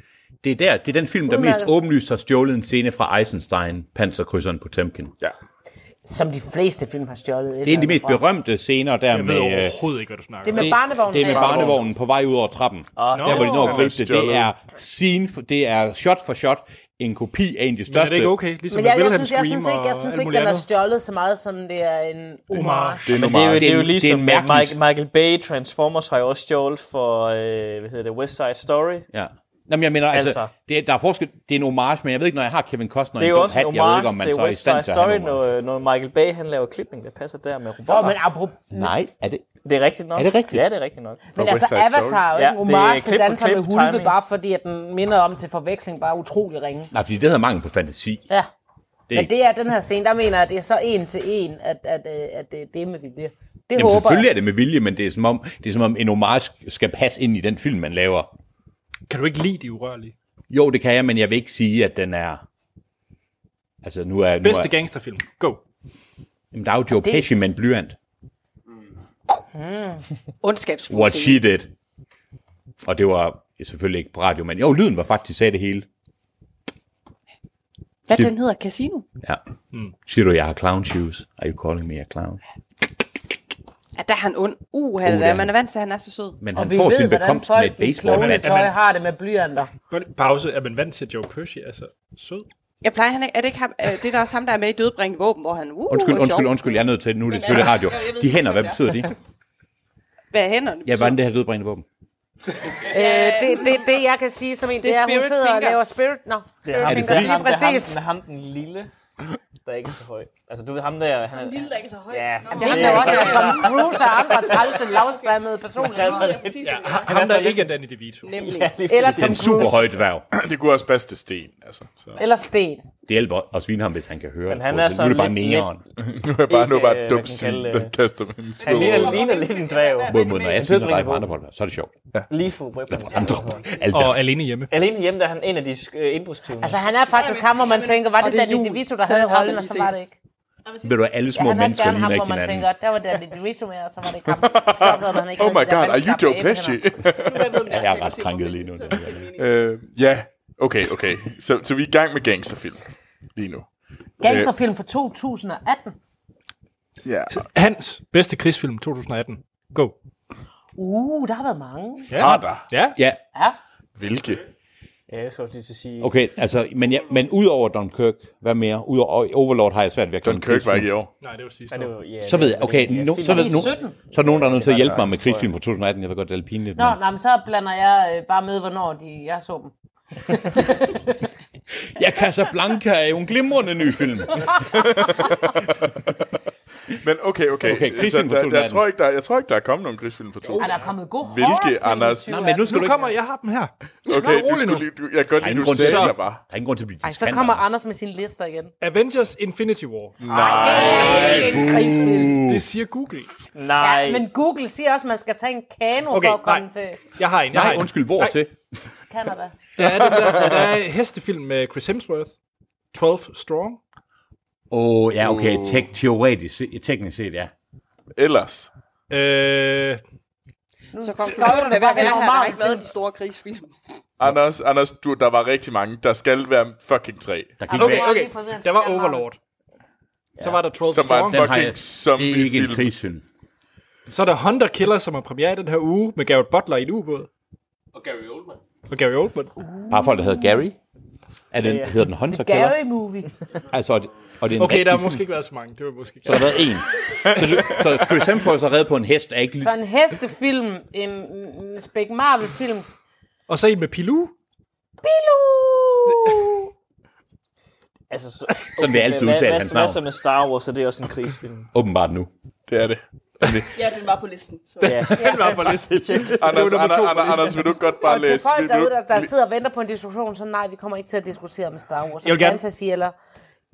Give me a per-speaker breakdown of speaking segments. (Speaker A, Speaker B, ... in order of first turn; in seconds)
Speaker A: 0.4-5.1, 7.6-9.8, 10.5-18.4, 23.1-24.8, 29.1-35.5, 38.7-39.5, 40.1-40.7, 46.9-48.2, 53.7-58.3, 60.5-62.4, 63.8-64.7, 66.5-68.0, 70.9-71.7, 72.8-75.8, 80.0-82.4, 85.0-85.5, 86.4-88.7, 95.9-99.1, 100.8-101.8, 106.8-107.4, 119.0-120.2, 123.0-125.8, 130.1-131.9, 132.9-134.3, 140.8-142.7, 147.6-149.3, 162.1-163.2, 166.0-170.9, 172.2-177.0, 181.8-184.9, 187.6-188.8, 192.3-193.1, 195.4-197.7, 200.8-202.7, 207.5-208.5, 214.7-217.5, 227.6-228.1, 231.3-233.2, 239.9-240.8, 241.5-242.8, 243.7-245.2, 246.2-249.7, 258.8-260.0, 261.7-262.3
Speaker B: 1.3-1.7, 6.0-8.2, 10.4-11.8, 18.7-23.1, 37.9-38.9, 41.3-46.9, 49.1-54.3, 66.9-67.2, 69.5-70.0, 86.5-89.7, 102.8-108.0, 112.6-116.5, 118.8-119.9, 122.2-122.8, 136.6-140.2, 141.3-146.8, 154.2-155.9, 160.8-162.2, 173.2-174.0, 176.8-179.7, 180.3-181.2, 190.6-193.1, 197.0-198.7, 200.3-202.4, 203.8-207.0, 209.1-209.6, 220.9-222.9, 227.7-229.3, 239.6-240.6, 242.3-243.3, 249.6-253.0, 255.0-256.6, 265.2-265.5, 268.0-273.1
Speaker C: 9.1-10.8, 13.1-13.9, 17.9-20.7, 22.5-23.1, 59.1-60.1, 64.4-65.6, 88.1-88.7, 89.9-92.5, 116.6-118.3, 133.9-134.7, 157.3-159.9, 162.1-163.0, 171.2-171.9, 190.6-190.9, 192.6-194.9, 195.7-196.2, 198.8-203.3, 206.1-208.4, 209.8-212.3, 212.9-213.8, 219.1-220.0, 227.7-229.4, 230.4-231.5, 234.1-237.3, 238.9-239.5, 244.6-246.7, 253.5-254.3, 256.1-256.4, 264.8-267.9, 272.2-272.6
Speaker D: 11.3-11.8, 13.3-14.5, 23.1-23.5, 41.4-42.2, 120.3-122.2, 126.0-129.3, 144.5-147.6, 149.4-152.8, 153.3-153.7, 154.2-154.5, 157.0-157.4, 162.2-162.6, 163.9-164.4, 170.2-171.1, 184.7-185.9, 186.9-192.3, 194.1-196.4, 200.2-201.4, 215.2-215.9, 218.2-218.7, 224.2-227.6, 230.9-232.9, 247.2-248.2, 262.7-263.8, 266.4-269.3
Speaker E: 13.0-13.7, 23.1-29.1, 30.1-30.5, 33.2-38.2, 39.6-41.2, 42.3-44.2, 106.6-108.9, 109.6-114.8, 115.8-117.7, 118.3-119.8, 124.5-125.7, 126.5-127.9, 128.6-131.3, 132.3-133.7, 134.7-136.9, 165.1-166.1, 171.7-175.5, 203.5-204.3, 241.6-241.9, 258.1-261.7, 264.8-266.6
Speaker F: 70.4-71.5, 78.1-79.0, 84.0-86.4, 92.8-96.6, 100.3-101.2, 102.9-103.9, 104.8-106.0, 112.5-113.7, 118.2-118.7, 138.1-139.9, 221.0-223.7
Speaker G: 97.3-99.1, 111.3-117.3, 128.6-130.7, 133.2-133.8, 136.9-138.1, 140.7-141.1, 147.1-149.6, 263.7-265.1